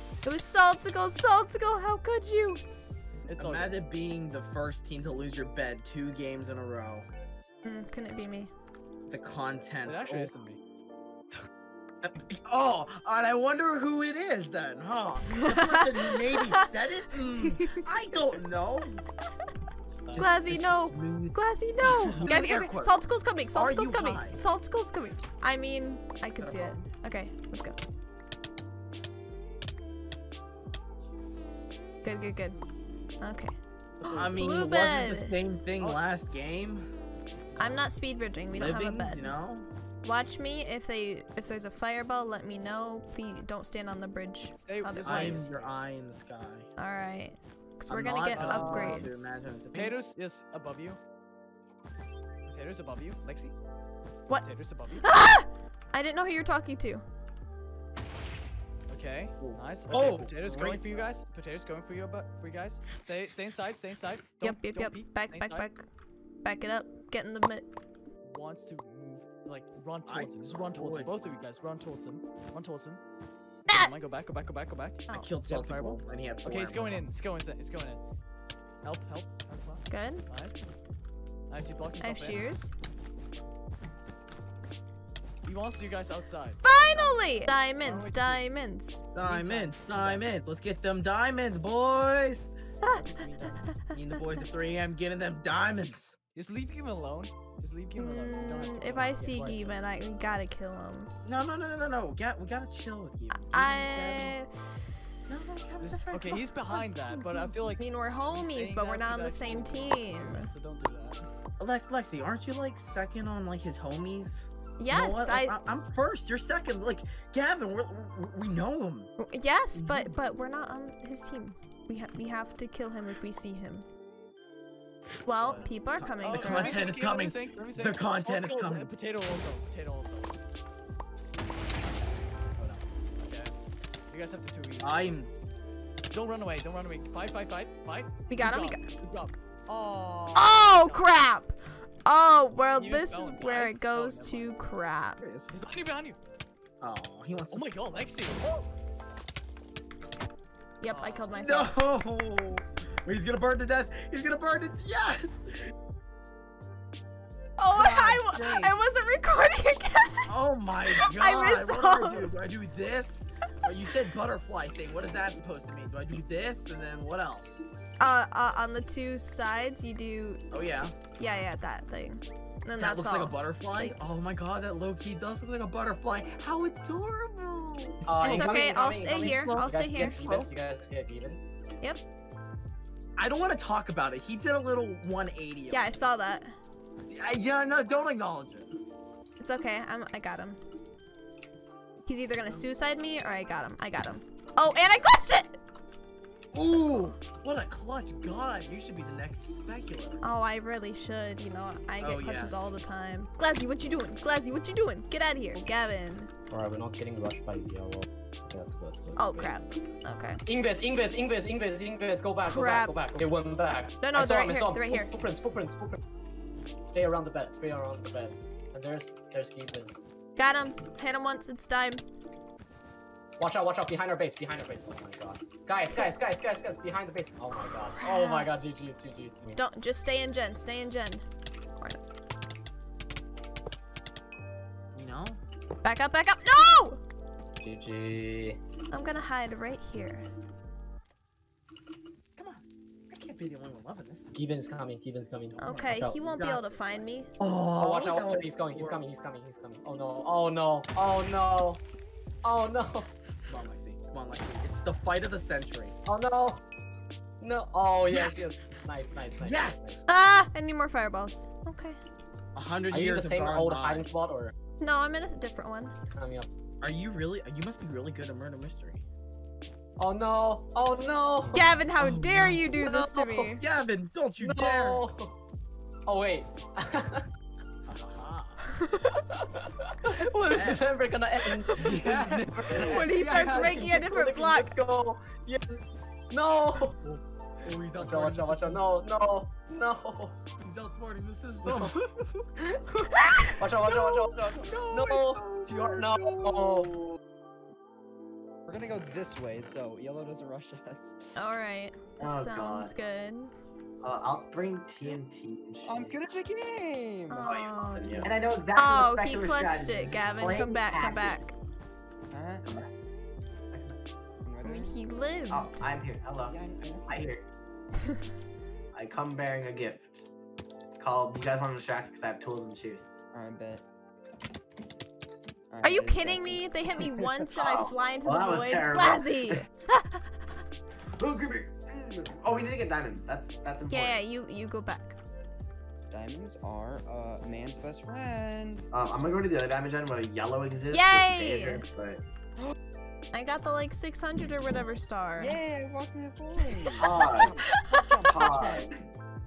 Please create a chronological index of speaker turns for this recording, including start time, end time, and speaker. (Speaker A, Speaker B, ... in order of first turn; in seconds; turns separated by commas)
Speaker A: 0.2-2.6, Speaker B: 3.3-3.8, Speaker C: 3.4-7.1, Speaker A: 7.6-8.5, Speaker C: 9.1-10.3, Speaker B: 9.8-10.6, Speaker C: 12.0-19.0, Speaker A: 15.3-16.7, Speaker A: 17.4-17.8, Speaker B: 20.1-20.3, Speaker C: 20.1-23.0, Speaker A: 20.2-27.8, Speaker C: 23.6-24.4, Speaker C: 26.4-26.8, Speaker A: 32.0-32.6, Speaker A: 33.2-35.4, Speaker B: 34.0-34.3, Speaker C: 34.1-36.9, Speaker B: 35.8-36.1, Speaker B: 37.6-37.8, Speaker A: 37.6-39.4, Speaker C: 38.5-39.7, Speaker A: 40.0-45.5, Speaker B: 44.6-45.6, Speaker C: 45.0-46.7, Speaker A: 46.8-49.4, Speaker C: 47.9-49.9, Speaker B: 48.2-49.0, Speaker B: 49.7-51.0, Speaker B: 52.5-53.5, Speaker B: 54.4-55.1, Speaker A: 55.0-57.0, Speaker B: 58.9-65.7, Speaker C: 59.4-61.1, Speaker A: 64.4-65.8, Speaker A: 66.4-67.7, Speaker B: 68.2-73.0, Speaker C: 70.1-71.2, Speaker B: 73.7-78.0, Speaker C: 75.1-77.0, Speaker B: 78.8-80.5, Speaker A: 79.9-80.2, Speaker B: 81.5-82.5, Speaker A: 82.0-82.7, Speaker B: 85.4-87.2, Speaker A: 86.6-89.0, Speaker B: 87.8-88.4, Speaker C: 89.1-92.5, Speaker B: 89.2-90.3, Speaker A: 92.8-93.8, Speaker B: 92.9-93.7, Speaker C: 93.9-96.2, Speaker B: 96.3-99.8, Speaker A: 98.0-101.1, Speaker C: 101.2-104.4, Speaker A: 103.5-105.2, Speaker C: 105.3-106.4, Speaker B: 105.8-111.2, Speaker A: 107.3-110.5, Speaker C: 111.6-119.1, Speaker A: 114.8-115.6, Speaker A: 119.2-123.9, Speaker C: 119.7-120.1, Speaker A: 125.2-127.0, Speaker B: 125.4-130.4, Speaker C: 126.0-128.9, Speaker B: 132.6-133.5, Speaker B: 134.1-135.2, Speaker C: 134.8-135.3, Speaker B: 136.1-141.1, Speaker A: 138.3-138.8, Speaker A: 140.3-145.2, Speaker B: 142.7-144.6, Speaker C: 145.2-145.5, Speaker B: 145.5-146.2, Speaker C: 146.8-147.7, Speaker B: 147.5-148.7, Speaker A: 150.8-151.8, Speaker B: 150.8-151.4, Speaker C: 151.4-155.5, Speaker A: 157.6-160.3, Speaker C: 157.7-158.8, Speaker C: 160.3-167.6, Speaker A: 160.8-162.3, Speaker A: 168.0-174.0, Speaker C: 170.5-170.9, Speaker C: 172.8-180.5, Speaker D: 178.1-178.6, Speaker A: 178.2-180.2, Speaker D: 179.5-181.5, Speaker C: 183.2-186.0, Speaker A: 185.7-186.5, Speaker C: 187.1-188.7, Speaker A: 189.4-190.6, Speaker A: 192.1-195.6, Speaker C: 196.5-200.2, Speaker A: 196.6-197.2, Speaker A: 200.2-206.3, Speaker C: 202.0-202.6, Speaker D: 206.5-209.5, Speaker A: 209.2-210.4, Speaker D: 210.4-216.0, Speaker A: 212.4-213.2, Speaker A: 214.0-215.1, Speaker D: 216.9-220.0, Speaker A: 220.4-222.0, Speaker D: 223.4-229.6, Speaker A: 225.9-226.2, Speaker A: 227.9-228.5, Speaker A: 229.6-231.2, Speaker C: 234.9-235.4, Speaker A: 235.8-237.0, Speaker D: 237.6-238.6, Speaker A: 238.9-240.2, Speaker C: 242.3-244.3, Speaker D: 244.3-246.3, Speaker A: 245.6-247.3, Speaker C: 246.2-246.7, Speaker C: 247.4-249.0, Speaker D: 247.8-251.8, Speaker D: 252.4-253.1, Speaker C: 253.5-255.9, Speaker D: 256.1-256.6, Speaker D: 257.4-260.0, Speaker C: 258.1-258.4, Speaker C: 259.4-260.0, Speaker A: 260.1-262.0, Speaker C: 262.6-264.1, Speaker D: 262.9-264.5, Speaker A: 264.8-266.0, Speaker D: 266.1-266.5, Speaker C: 266.8-269.0, Speaker D: 270.0-271.7, Speaker C: 271.4-272.9, Speaker A: 271.5-273.6, Speaker D: 272.8-273.5, Speaker C: 273.5-275.1, Speaker D: 274.4-275.3, Speaker D: 276.1-277.2, Speaker C: 277.9-278.6, Speaker D: 280.0-286.9, Speaker C: 280.5-280.9, Speaker A: 281.7-282.0, Speaker C: 281.8-282.3, Speaker B: 282.3-283.0, Speaker A: 282.7-284.7, Speaker C: 283.0-283.9, Speaker C: 287.0-288.9, Speaker D: 287.9-290.4, Speaker C: 290.6-292.0, Speaker D: 291.6-291.9, Speaker D: 292.6-296.9, Speaker E: 293.8-297.2, Speaker E: 298.7-301.4, Speaker A: 301.4-303.5, Speaker F: 302.2-302.9, Speaker F: 304.0-306.2, Speaker E: 305.8-307.5, Speaker A: 307.3-311.5, Speaker F: 307.4-311.4, Speaker E: 312.3-312.6, Speaker E: 314.4-314.9, Speaker A: 314.6-315.7, Speaker F: 315.5-316.6, Speaker E: 316.5-317.4, Speaker F: 317.1-317.4, Speaker F: 318.9-320.2, Speaker F: 321.0-323.1, Speaker E: 323.3-323.8, Speaker E: 325.7-327.1, Speaker A: 325.8-330.3, Speaker F: 327.5-329.6, Speaker F: 331.2-334.2, Speaker A: 333.9-335.2, Speaker E: 336.1-338.9, Speaker F: 338.9-342.2, Speaker A: 340.9-341.8, Speaker A: 343.3-345.6, Speaker E: 345.4-348.9, Speaker A: 346.6-347.1, Speaker F: 347.0-347.6, Speaker F: 348.3-348.9